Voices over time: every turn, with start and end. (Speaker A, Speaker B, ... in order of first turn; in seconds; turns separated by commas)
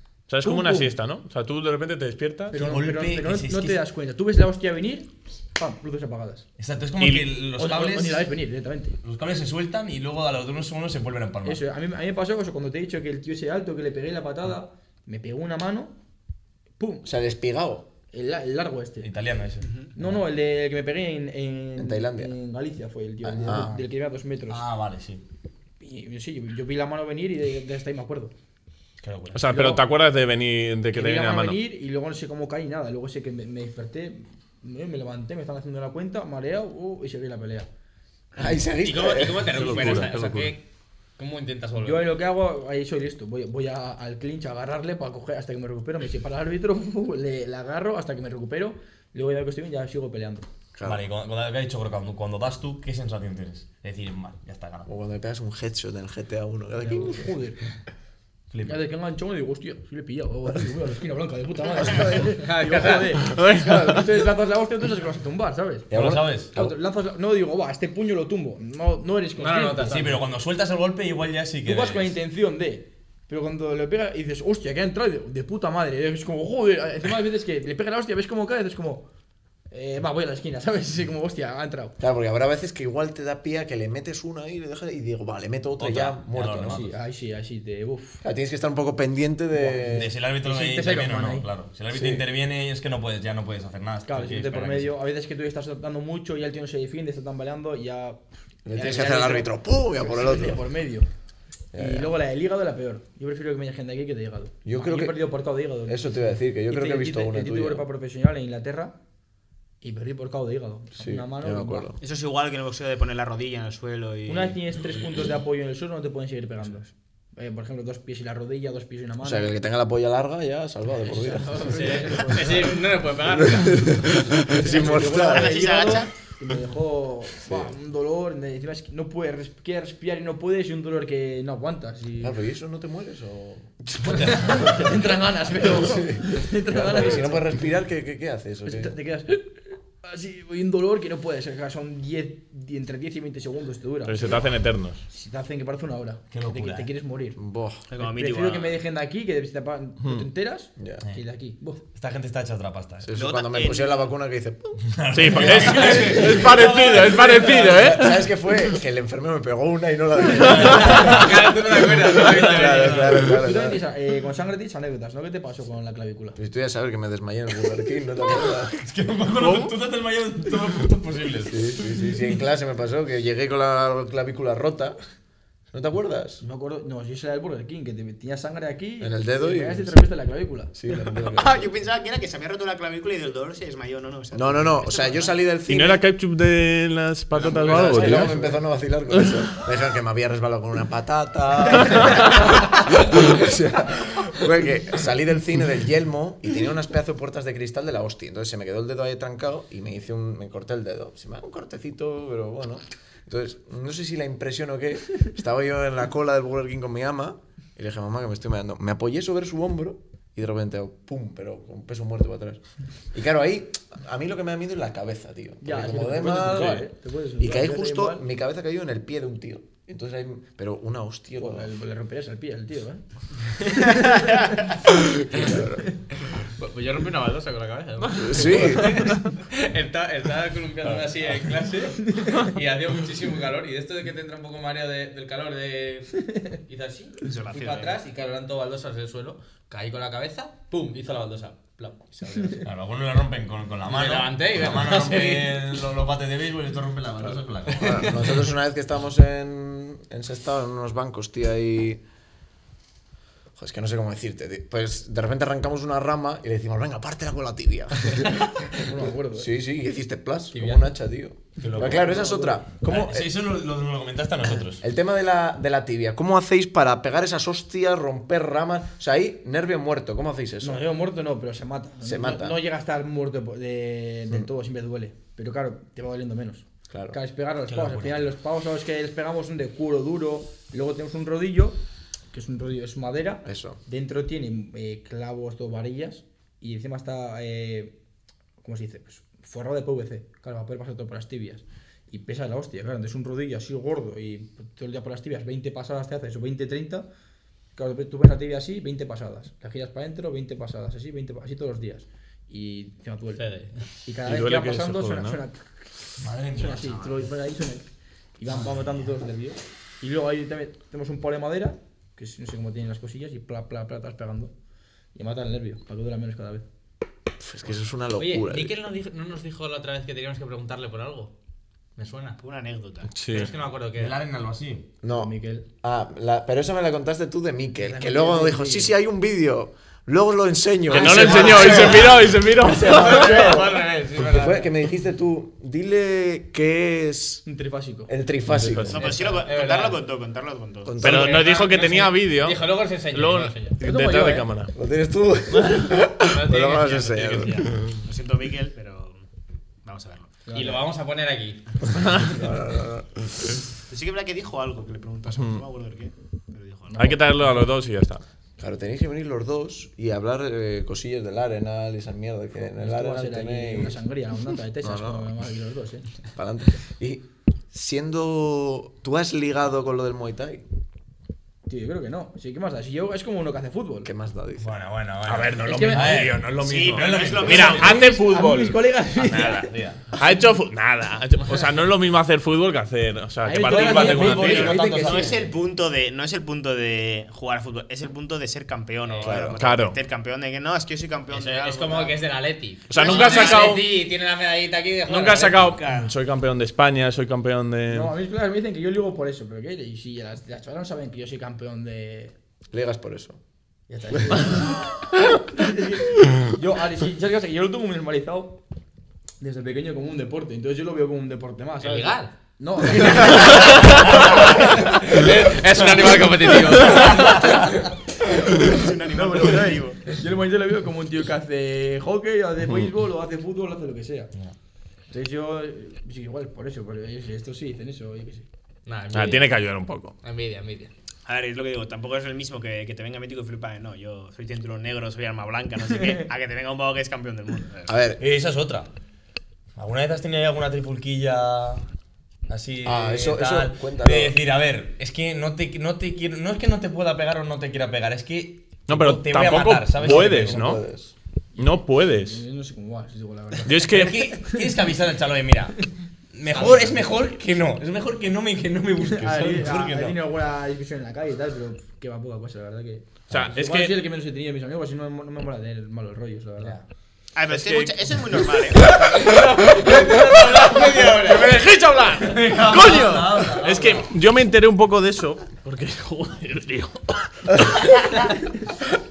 Speaker A: 0.3-2.5, Speaker B: 0.4-0.9, Speaker B: 2.5-6.4, Speaker C: 2.5-3.8, Speaker C: 6.6-8.3, Speaker A: 7.0-7.2, Speaker B: 7.5-8.9, Speaker C: 9.0-11.6, Speaker B: 11.4-15.9, Speaker B: 16.8-17.1, Speaker D: 17.0-17.9, Speaker B: 18.1-19.1, Speaker C: 19.0-20.1, Speaker E: 19.6-19.9, Speaker B: 19.9-24.6, Speaker D: 21.8-22.3, Speaker D: 23.2-23.8, Speaker C: 23.4-23.8, Speaker C: 24.5-25.2, Speaker B: 25.8-28.3, Speaker C: 29.0-29.7, Speaker A: 29.3-31.6, Speaker B: 29.5-29.8, Speaker B: 30.9-37.7, Speaker D: 38.4-40.0, Speaker F: 38.8-42.1, Speaker A: 39.5-40.5, Speaker B: 41.8-50.5, Speaker D: 50.7-51.0, Speaker C: 50.8-54.9, Speaker D: 54.9-57.3, Speaker B: 56.8-57.6, Speaker C: 58.5-58.8, Speaker B: 58.6-65.9, Speaker F: 62.2-63.2, Speaker A: 63.3-64.0, Speaker C: 65.9-66.5, Speaker D: 65.9-66.7, Speaker B: 66.5-69.9, Speaker F: 69.4-70.3, Speaker C: 69.8-72.1, Speaker B: 71.6-79.1, Speaker B: 79.7-82.0, Speaker D: 82.0-86.9, Speaker C: 85.8-86.9, Speaker B: 86.7-88.2, Speaker D: 88.2-90.1, Speaker B: 89.5-91.5, Speaker C: 89.9-95.0, Speaker D: 91.9-92.2, Speaker B: 94.0-98.2, Speaker D: 98.7-100.6, Speaker B: 98.7-101.1, Speaker D: 101.7-102.1, Speaker B: 101.8-106.1, Speaker D: 104.6-107.9, Speaker B: 106.6-109.0, Speaker B: 109.8-111.9, Speaker D: 111.0-112.0, Speaker E: 112.0-114.6, Speaker B: 114.2-119.5, Speaker D: 119.2-122.2, Speaker F: 121.1-124.1, Speaker B: 121.3-122.8, Speaker D: 123.3-125.7, Speaker B: 124.5-132.4, Speaker E: 125.0-126.1, Speaker D: 127.4-127.7, Speaker D: 132.2-134.7, Speaker B: 134.0-137.6, Speaker C: 134.1-134.7, Speaker D: 135.6-138.9, Speaker B: 138.6-144.5, Speaker A: 144.1-145.0, Speaker B: 145.1-147.4, Speaker C: 146.3-146.9, Speaker D: 147.4-147.8, Speaker E: 147.9-148.8, Speaker B: 147.9-151.8, Speaker D: 150.8-151.0, Speaker C: 151.9-153.1, Speaker D: 153.0-163.8, Speaker E: 153.1-154.1, Speaker C: 154.8-157.4, Speaker A: 155.1-158.3, Speaker C: 160.4-163.3, Speaker F: 160.5-163.2, Speaker B: 163.2-166.4, Speaker D: 166.3-168.7, Speaker C: 168.4-171.7, Speaker A: 169.4-169.7, Speaker D: 171.4-174.9, Speaker D: 175.7-176.4, Speaker B: 176.4-181.1, Speaker D: 179.0-180.0, Speaker D: 180.7-181.7, Speaker E: 181.1-185.3, Speaker D: 184.3-186.0, Speaker A: 185.7-188.3, Speaker E: 187.3-188.0, Speaker B: 187.6-188.6, Speaker D: 187.6-212.6, Speaker A: 189.1-189.4, Speaker A: 191.8-192.3, Speaker D: 213.1-221.7, Speaker B: 215.6-218.2, Speaker B: 221.4-224.7, Speaker D: 224.9-225.9, Speaker B: 225.4-225.9, Speaker F: 226.4-242.7, Speaker D: 228.1-229.1, Speaker C: 230.8-231.6, Speaker B: 232.1-232.4, Speaker E: 237.2-238.0, Speaker C: 242.6-248.3, Speaker F: 243.8-245.7, Speaker F: 247.7-248.3, Speaker D: 247.8-252.0, Speaker D: 253.6-258.8, Speaker B: 258.7-259.5, Speaker D: 259.3-263.3, Speaker B: 260.5-260.9, Speaker C: 261.6-262.2, Speaker B: 261.7-263.2, Speaker C: 262.8-264.8, Speaker D: 264.8-270.8, Speaker B: 270.6-281.8, Speaker D: 272.0-272.6, Speaker D: 276.9-277.2, Speaker C: 277.7-278.3, Speaker B: 282.3-288.0, Speaker D: 283.4-283.8, Speaker B: 288.6-297.1, Speaker B: 297.8-303.4, Speaker F: 303.4-303.8, Speaker B: 304.0-314.5, Speaker A: 304.2-305.4, Speaker C: 306.2-307.3, Speaker B: 315.1-316.6, Speaker D: 317.4-318.8, Speaker F: 318.1-321.3, Speaker F: 321.9-322.4, Speaker E: 322.4-323.1, Speaker A: 323.1-323.5, Speaker F: 323.3-324.2, Speaker C: 324.0-324.9, Speaker D: 325.0-337.4, Speaker B: 325.1-325.7, Speaker B: 327.8-328.9, Speaker A: 330.9-333.5, Speaker F: 330.9-332.2, Speaker C: 331.0-332.3, Speaker F: 332.8-334.7, Speaker B: 337.4-338.1, Speaker D: 338.1-339.0, Speaker A: 338.5-339.4, Speaker E: 338.9-341.0, Speaker F: 338.9-340.0, Speaker D: 340.8-341.5, Speaker A: 341.0-344.7, Speaker F: 341.0-343.8, Speaker B: 343.8-344.5, Speaker D: 344.7-347.7, Speaker A: 345.5-345.9, Speaker F: 346.1-347.6, Speaker E: 347.1-349.2, Speaker E: 349.8-350.5, Speaker B: 350.4-350.8, Speaker F: 350.5-351.8, Speaker A: 351.9-352.3, Speaker D: 352.1-353.6, Speaker E: 353.9-357.1, Speaker A: 355.3-355.6, Speaker B: 356.9-357.6, Speaker A: 356.9-358.2, Speaker D: 358.6-364.0, Speaker B: 362.6-366.1, Speaker D: 364.8-365.3, Speaker D: 366.3-370.6, Speaker B: 371.7-374.1, Speaker D: 374.0-374.7, Speaker C: 374.6-378.1, Speaker A: 375.3-378.8, Speaker B: 375.7-376.3, Speaker E: 376.6-378.2, Speaker B: 378.0-379.7, Speaker C: 379.1-380.1, Speaker A: 380.1-384.8, Speaker B: 383.4-385.4, Speaker C: 383.6-385.5, Speaker E: 384.5-392.2, Speaker F: 389.0-389.5, Speaker D: 389.2-389.6, Speaker A: 389.6-390.0, Speaker F: 391.3-395.8, Speaker A: 392.9-393.9, Speaker E: 392.9-393.8, Speaker A: 395.1-398.1, Speaker E: 395.6-396.1, Speaker B: 397.9-402.3, Speaker D: 402.7-403.4, Speaker B: 403.9-404.9, Speaker D: 404.1-404.7, Speaker B: 405.5-408.6, Speaker B: 409.4-414.1, Speaker F: 411.8-412.3, Speaker F: 413.1-417.6, Speaker C: 415.8-417.8, Speaker E: 418.4-420.1, Speaker B: 418.4-424.3, Speaker B: 425.1-428.4, Speaker F: 428.9-429.6, Speaker A: 429.1-430.1, Speaker F: 430.2-430.9, Speaker E: 431.2-437.9, Speaker D: 437.9-438.2, Speaker C: 438.2-438.9, Speaker C: 439.8-441.8, Speaker C: 442.5-450.8, Speaker D: 442.8-444.4, Speaker A: 448.9-450.8, Speaker D: 449.9-451.1, Speaker B: 451.6-454.7, Speaker A: 451.6-452.4, Speaker A: 453.6-454.4, Speaker C: 453.9-455.8, Speaker C: 456.3-460.2, Speaker F: 456.5-457.1, Speaker B: 459.0-466.8, Speaker A: 463.3-463.9, Speaker E: 467.3-469.2, Speaker A: 467.5-469.2, Speaker F: 469.2-471.6, Speaker A: 469.7-478.4, Speaker C: 472.2-474.1